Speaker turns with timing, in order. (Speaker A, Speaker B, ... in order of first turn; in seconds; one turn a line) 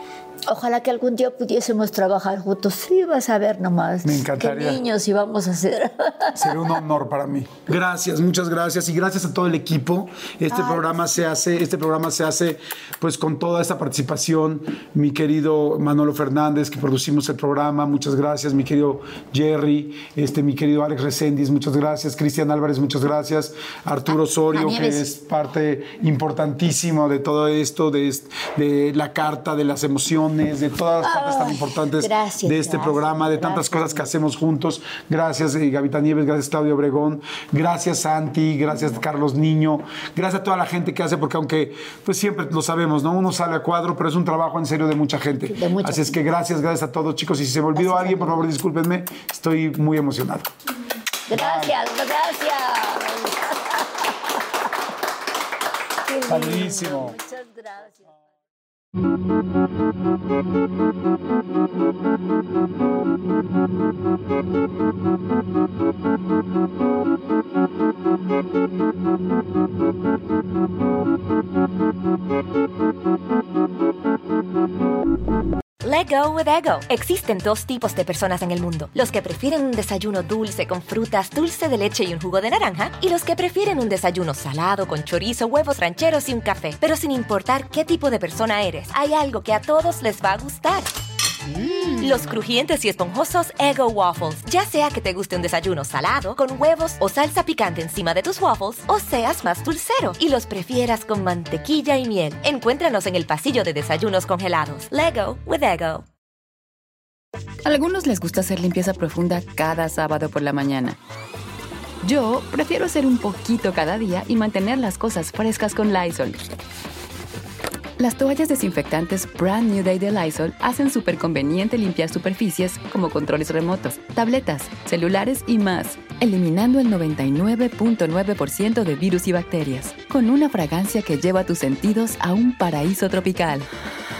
Speaker A: 0.5-6.6
Speaker B: 4.0-4.8
Speaker B: 6.3-50.5
Speaker A: 10.5-10.9
Speaker A: 24.5-25.0
Speaker A: 31.0-34.0
Speaker A: 45.5-46.1
Speaker A: 51.3-53.9
Speaker B: 51.3-51.8
Speaker A: 56.0-58.1
Speaker B: 56.2-57.1
Speaker C: 75.8-90.9
Speaker C: 91.5-106.1
Speaker D: 107.6-111.0
Speaker D: 112.0-116.4
Speaker D: 118.0-133.7